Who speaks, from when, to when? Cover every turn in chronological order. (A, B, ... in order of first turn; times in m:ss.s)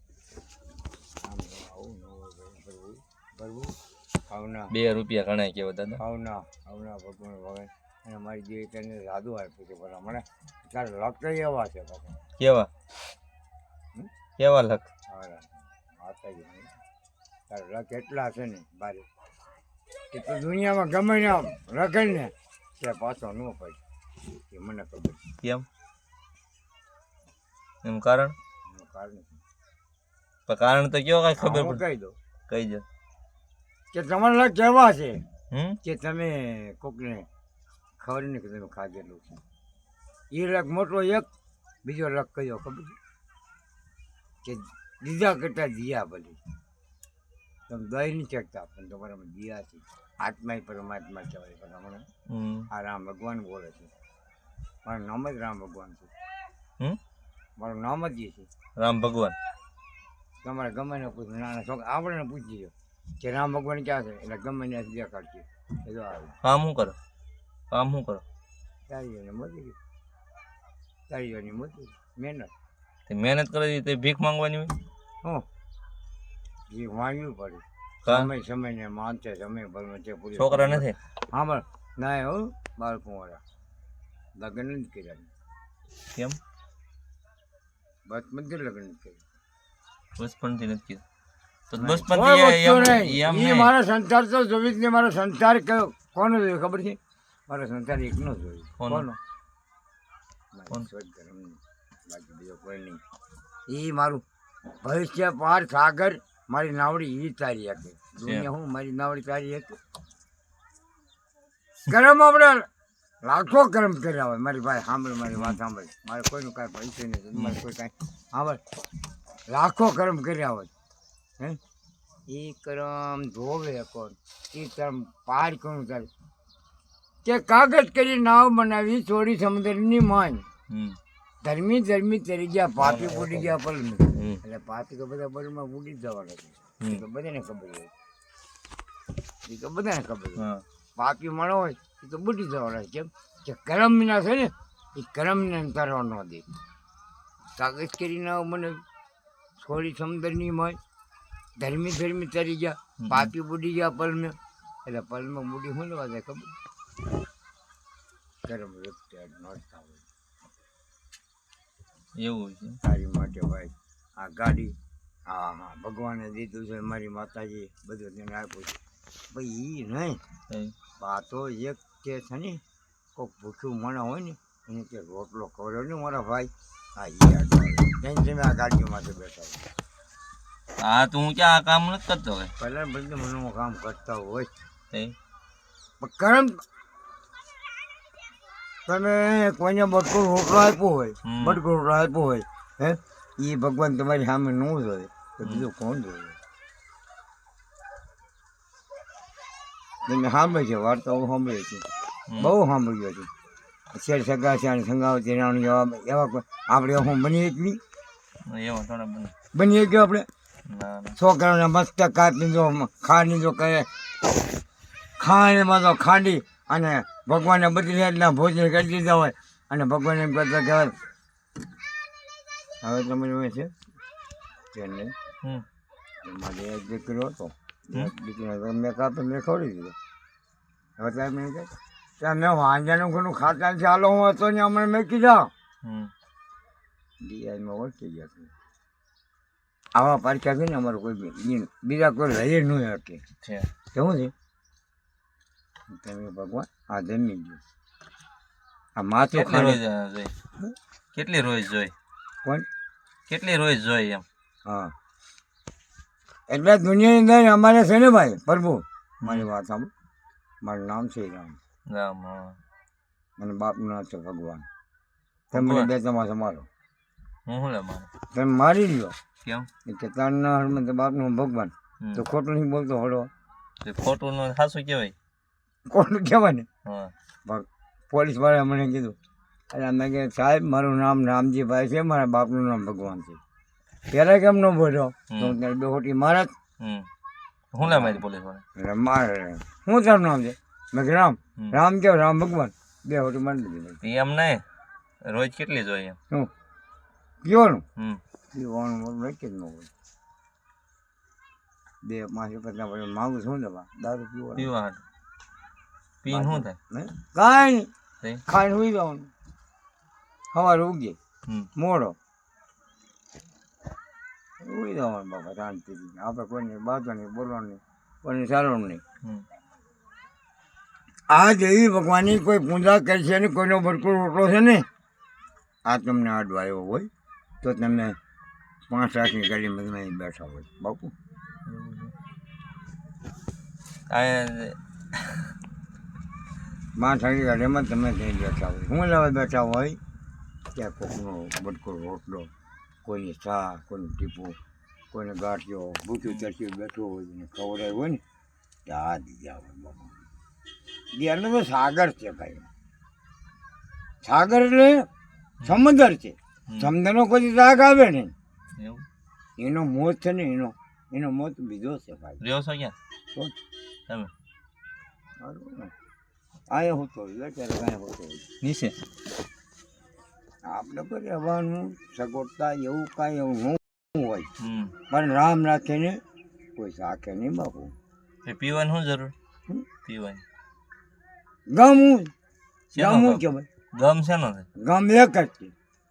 0:01.2-0:03.8 A
0:04.3-0:04.7 A
0:04.7-0:06.0 B
0:06.0-0:12.2 A
0:12.4-0:12.7 B
0:14.4-0:14.9 B
0:15.1-0:16.7 A
0:17.5-0:19.1 A
0:20.1-0:23.8 A
0:24.5-0:25.2 A
0:27.8-0:28.4 B
0:28.7-0:29.4 A
0:30.5-0:31.8 B
0:31.4-0:32.2 A
0:32.5-0:32.8 B
0:33.9-0:35.2 A
0:35.5-0:35.8 B
0:35.8-0:37.3 A
0:38.0-0:39.4 A
0:40.3-0:41.3 A
0:41.8-0:43.0 A
0:44.4-0:46.4 A
0:47.7-0:52.1 A
0:52.3-0:52.7 B
0:52.7-0:53.9 A
0:54.8-0:56.1 A
0:57.6-0:58.5 A
0:58.8-0:59.4 B
1:00.4-1:06.4 A
1:06.4-1:07.0 B
1:07.7-1:08.2 B
1:08.9-1:09.8 A
1:11.1-1:12.5 A
1:13.1-1:14.8 B
1:16.7-1:23.4 A
1:18.0-1:18.3 B
1:20.4-1:21.0 B
1:24.4-1:25.3 A
1:28.1-1:29.2 A
1:30.2-1:31.0 B
1:31.7-1:33.7 B
1:31.8-1:39.2 A
1:38.8-1:39.1 B
1:40.5-1:43.0 A
1:43.7-1:44.2 A
1:44.8-1:49.8 A
1:48.2-1:48.5 B
1:51.9-1:52.7 A
1:53.2-1:58.6 A
1:59.5-2:00.7 A
2:02.3-2:06.1 A
2:07.2-2:10.4 A
2:10.7-2:11.0 B
2:11.4-2:17.9 A
2:12.8-2:13.5 B
2:14.1-2:14.4 B
2:19.5-2:20.4 A
2:20.4-2:20.6 B
2:21.0-2:26.4 A
2:27.6-2:28.8 A
2:29.6-2:30.8 A
2:31.6-2:36.6 A
2:33.0-2:33.3 B
2:38.4-2:40.0 A
2:42.2-2:42.8 B
2:42.8-2:44.8 A
2:45.3-2:50.2 A
2:50.5-2:50.8 B
2:51.0-2:52.6 A
2:53.2-2:59.6 A
3:00.8-3:02.5 B
3:02.6-3:04.5 A
3:04.9-3:05.2 B
3:06.0-3:06.6 A
3:08.9-3:16.4 A
3:11.2-3:11.6 B
3:20.1-3:21.8 A
3:22.3-3:22.6 B
3:22.4-3:23.3 A
3:23.9-3:27.8 A
3:28.4-3:29.3 B
3:29.5-3:30.3 A
3:30.7-3:31.2 B
3:31.2-3:33.9 A
3:35.2-3:40.9 A
3:42.8-3:43.7 A
3:44.7-3:45.1 A
3:46.2-3:50.0 A
3:51.0-3:55.5 A
3:55.8-3:56.1 B
3:57.2-3:58.5 A
3:59.9-4:03.2 A
4:03.4-4:03.7 B
4:03.9-4:04.3 A
4:05.9-4:07.6 A
4:09.0-4:09.8 A
4:09.3-4:10.4 B
4:11.1-4:11.9 B
4:13.3-4:14.2 B
4:14.7-4:14.9 A
4:16.5-4:19.9 A
4:19.2-4:19.5 B
4:20.6-4:21.6 A
4:21.9-4:22.6 B
4:23.4-4:24.7 A
4:25.5-4:25.9 B
4:25.5-4:26.7 A
4:27.5-4:28.1 B
4:28.3-4:29.2 A
4:29.9-4:33.3 A
4:33.8-4:35.2 B
4:35.9-4:36.7 A
4:36.9-4:37.1 B
4:37.5-4:39.2 A
4:39.7-4:43.4 A
4:44.1-4:46.5 A
4:45.3-4:45.6 B
4:46.8-4:47.1 B
4:47.7-4:48.6 B
4:47.8-4:48.2 A
4:48.8-4:54.0 A
4:54.0-4:54.6 B
4:55.2-4:56.2 B
4:57.4-4:57.8 A
4:58.5-4:59.9 A
5:02.0-5:04.7 A
5:04.6-5:05.0 B
5:06.2-5:06.8 B
5:06.3-5:07.9 A
5:08.5-5:09.3 A
5:10.5-5:11.2 A
5:11.8-5:12.2 A
5:14.6-5:19.0 A
5:21.3-5:24.9 A
5:25.8-5:27.1 A
5:27.6-5:28.2 A
5:28.9-5:31.1 A
5:31.7-5:32.1 B
5:34.1-5:35.5 B
5:37.0-5:40.0 A
5:40.8-5:42.5 A
5:43.0-5:44.6 A
5:45.1-5:48.2 A
5:48.9-5:50.1 A
5:51.1-5:52.7 A
5:54.2-5:55.1 A
5:55.6-5:58.3 A
5:56.7-5:56.9 B
5:58.8-5:59.0 B
5:59.6-6:02.4 A
6:02.4-6:03.0 B
6:05.4-6:05.9 A
6:06.7-6:08.4 A
6:08.6-6:09.0 B
6:10.6-6:14.5 A
6:14.6-6:14.9 B
6:15.1-6:16.2 A
6:16.8-6:17.9 A
6:18.4-6:19.3 B
6:20.0-6:20.4 B
6:21.7-6:22.3 A
6:22.9-6:24.7 B
6:23.0-6:23.7 A
6:24.8-6:25.7 A